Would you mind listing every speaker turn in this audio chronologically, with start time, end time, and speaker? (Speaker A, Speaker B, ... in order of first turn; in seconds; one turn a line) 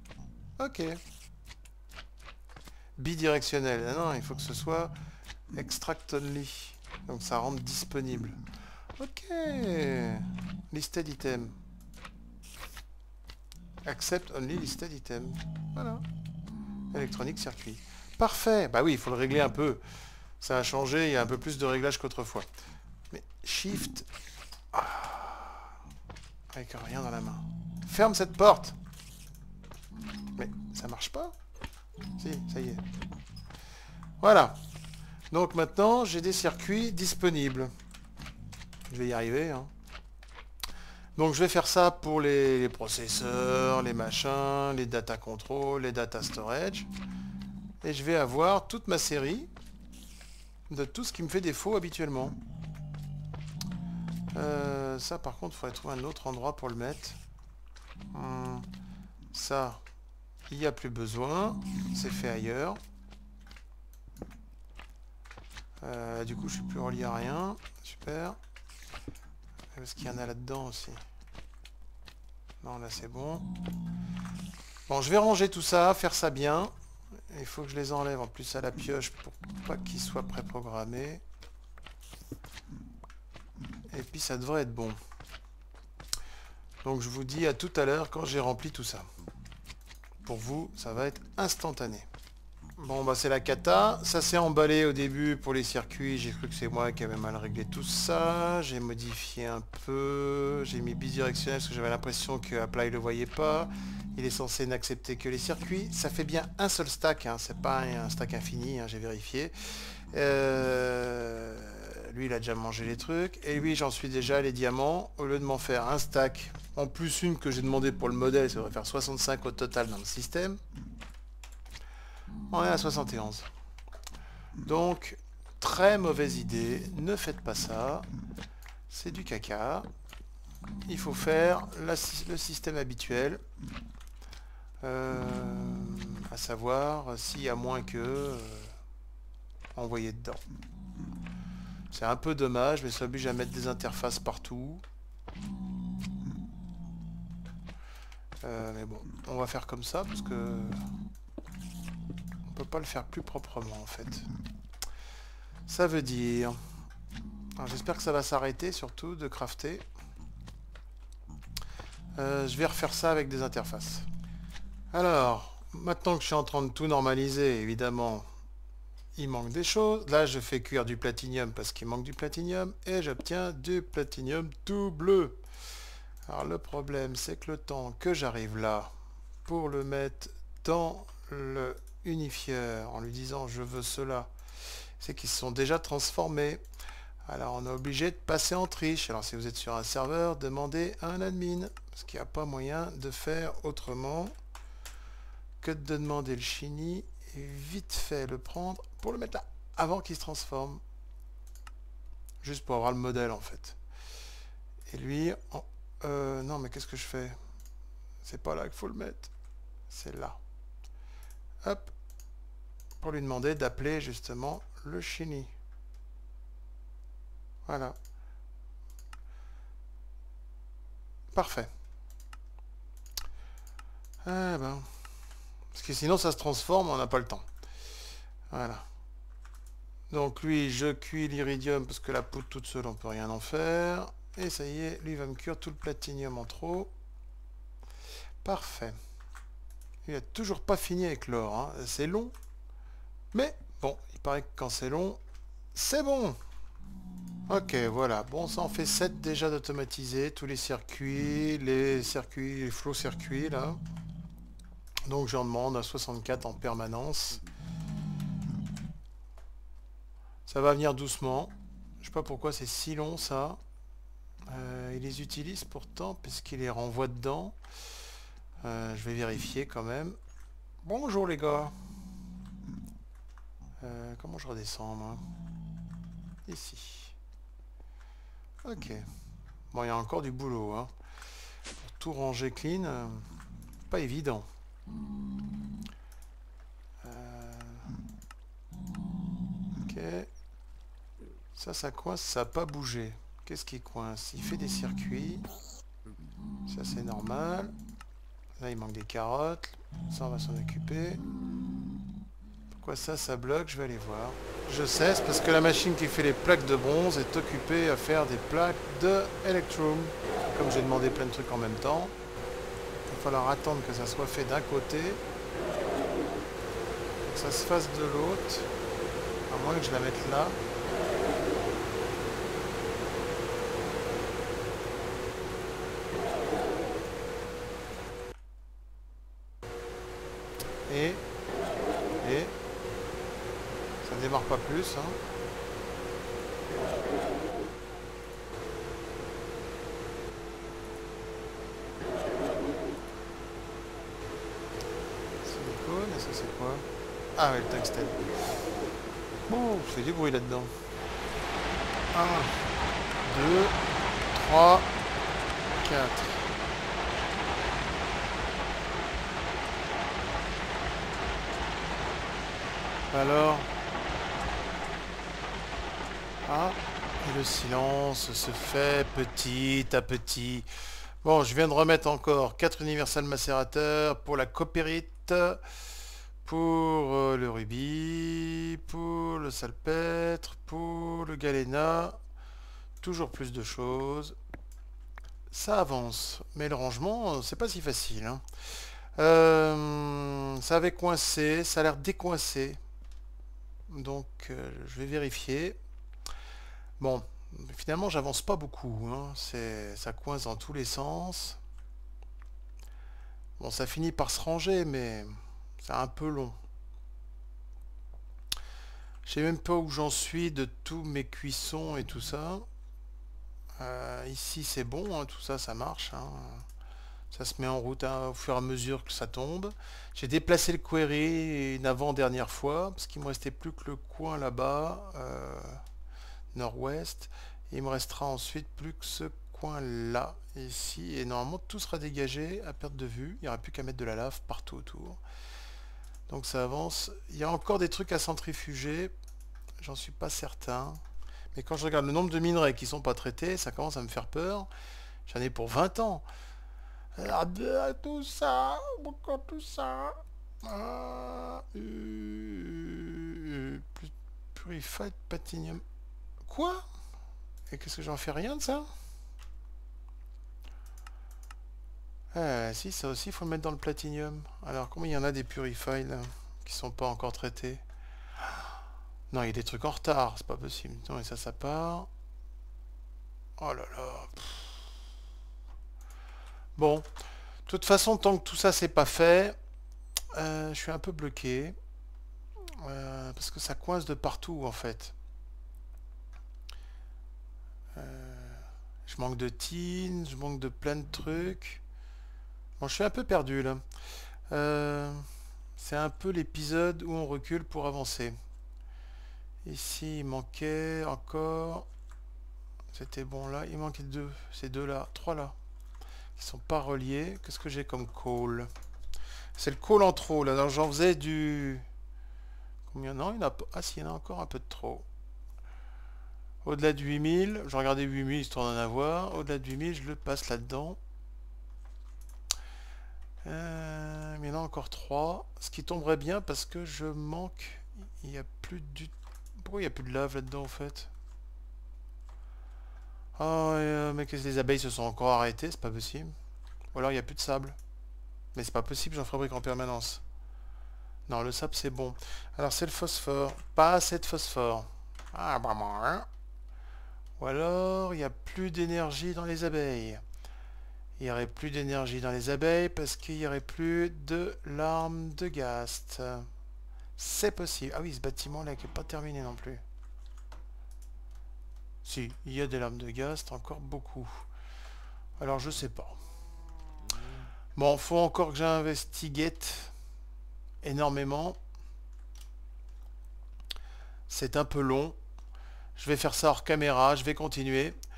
Speaker A: 0.6-1.0
Speaker A: 3.0-4.9
Speaker A: 5.5-8.4
Speaker A: 9.0-11.6
Speaker A: 13.8-16.0
Speaker A: 16.9-19.8
Speaker A: 20.4-22.5
Speaker A: 23.1-24.1
Speaker A: 24.7-25.7
Speaker A: 26.5-28.8
Speaker A: 30.4-31.3
Speaker A: 32.2-32.8
Speaker A: 34.2-34.6
Speaker A: 35.3-37.7
Speaker A: 38.9-39.7
Speaker A: 41.1-46.9
Speaker A: 47.8-49.5
Speaker A: 50.7-52.4
Speaker A: 54.3-57.2
Speaker A: 58.1-58.7
Speaker A: 59.3-59.8
Speaker A: 60.5-62.8
Speaker A: 65.8-68.4
Speaker A: 69.7-71.0
Speaker A: 72.6-73.5
Speaker A: 74.9-76.7
Speaker A: 77.3-81.2
Speaker A: 83.9-85.0
Speaker A: 86.8-89.1
Speaker A: 90.2-92.1
Speaker A: 92.8-109.5
Speaker A: 110.1-120.6
Speaker A: 122.5-123.5
Speaker A: 124.6-128.1
Speaker A: 128.9-129.9
Speaker A: 130.8-133.4
Speaker A: 134.8-138.7
Speaker A: 139.7-140.4
Speaker A: 141.9-144.8
Speaker A: 148.4-150.8
Speaker A: 152.4-154.3
Speaker A: 155.7-156.6
Speaker A: 157.6-159.8
Speaker A: 162.2-164.1
Speaker A: 164.9-168.2
Speaker A: 169.2-175.4
Speaker A: 176.3-178.9
Speaker A: 179.4-184.3
Speaker A: 185.0-186.6
Speaker A: 187.2-194.3
Speaker A: 195.6-200.8
Speaker A: 202.4-203.8
Speaker A: 204.9-207.3
Speaker A: 208.2-209.3
Speaker A: 209.9-210.4
Speaker A: 211.6-211.9
Speaker A: 213.0-215.5
Speaker A: 217.7-217.9
Speaker A: 221.3-221.7
Speaker A: 224.2-224.9
Speaker A: 225.7-227.5
Speaker A: 228.5-228.8
Speaker A: 230.1-236.9
Speaker A: 238.4-239.0
Speaker A: 240.0-242.3
Speaker A: 243.3-245.2
Speaker A: 245.7-246.4
Speaker A: 247.5-253.8
Speaker A: 255.1-257.4
Speaker A: 260.5-263.6
Speaker A: 264.5-267.6
Speaker A: 268.6-270.2
Speaker A: 270.8-271.7
Speaker A: 273.8-275.2
Speaker A: 276.5-277.1
Speaker A: 278.6-279.1
Speaker A: 279.7-280.9
Speaker A: 281.8-283.3
Speaker A: 283.9-284.5
Speaker A: 287.0-287.9
Speaker A: 289.8-290.3
Speaker A: 291.5-295.4
Speaker A: 296.7-297.7
Speaker A: 298.6-301.2
Speaker A: 302.7-312.1
Speaker A: 313.1-315.2
Speaker A: 317.2-318.7
Speaker A: 319.5-320.6
Speaker A: 330.9-331.2
Speaker A: 332.2-332.5
Speaker A: 334.0-335.2
Speaker A: 345.4-348.3
Speaker A: 349.5-350.8
Speaker A: 352.1-352.6
Speaker A: 353.2-353.8
Speaker A: 354.4-354.9
Speaker A: 355.8-356.5
Speaker A: 363.1-363.7
Speaker A: 366.4-370.7
Speaker A: 371.2-375.6
Speaker A: 376.4-382.2
Speaker A: 383.0-384.4
Speaker A: 385.5-388.4
Speaker A: 389.1-392.8
Speaker A: 393.9-395.8
Speaker A: 397.0-401.6
Speaker A: 403.6-406.5
Speaker A: 409.2-412.6
Speaker A: 413.8-416.6
Speaker A: 417.3-425.8
Speaker A: 426.5-435.2
Speaker A: 436.3-439.1
Speaker A: 439.8-441.0
Speaker A: 441.5-444.7
Speaker A: 445.2-446.2
Speaker A: 447.1-455.8
Speaker A: 456.4-456.8
Speaker A: 457.7-458.9
Speaker A: 462.3-467.8
Speaker A: 469.3-472.1
Speaker A: 473.6-474.8
Speaker A: 476.8-477.1
Speaker A: 477.6-479.6
Speaker A: 480.3-481.8
Speaker A: 482.8-485.1
Speaker A: 487.9-491.8
Speaker A: 492.8-493.8
Speaker A: 494.5-495.2
Speaker A: 495.8-498.4
Speaker A: 499.6-501.9
Speaker A: 502.9-505.5
Speaker A: 506.4-508.7
Speaker A: 509.6-511.8
Speaker A: 512.9-515.0
Speaker A: 516.6-521.0
Speaker A: 523.4-531.1
Speaker A: 533.4-536.3
Speaker A: 536.9-537.8
Speaker A: 538.5-540.2
Speaker A: 541.3-546.3
Speaker A: 547.4-550.2
Speaker A: 551.2-556.5
Speaker A: 557.2-559.8
Speaker A: 562.0-564.5
Speaker A: 565.4-566.2
Speaker A: 567.7-569.9
Speaker A: 570.8-571.6
Speaker A: 574.3-575.1
Speaker A: 576.0-578.0